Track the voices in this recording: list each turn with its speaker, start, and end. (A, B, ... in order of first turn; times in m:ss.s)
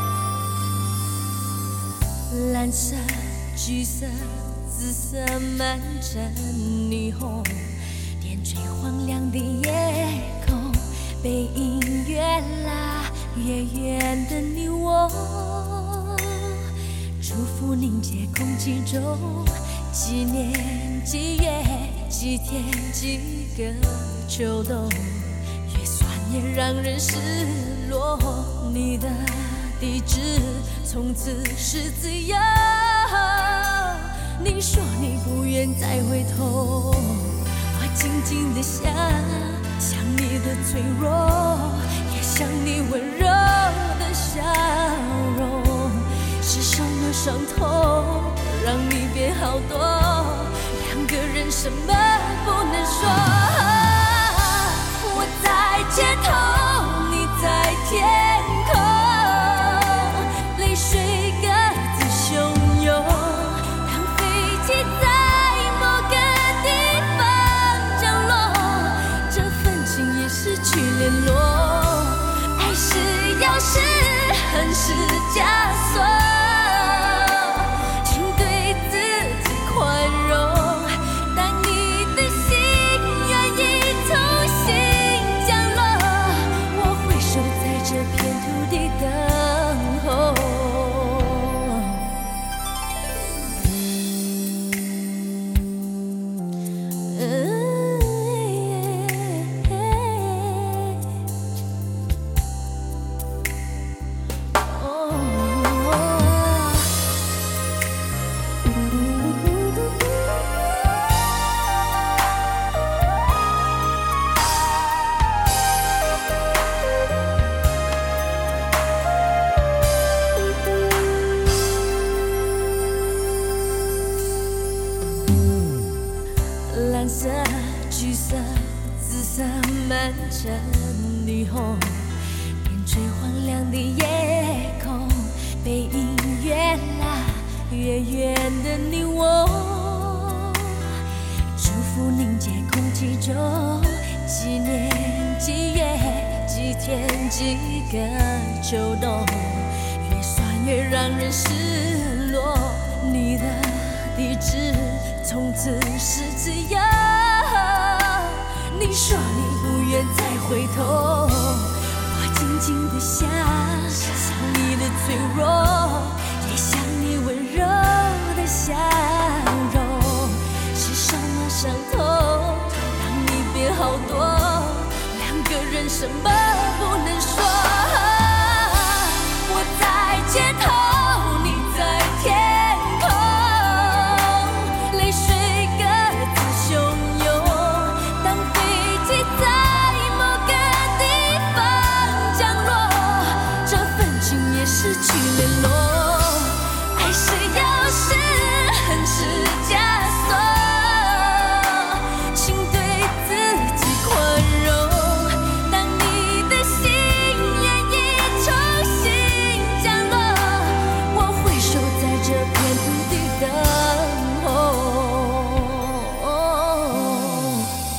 0:02.3-1:32.2 A
1:37.0-1:41.2 A
1:44.6-1:47.1 A
2:06.7-3:37.7 A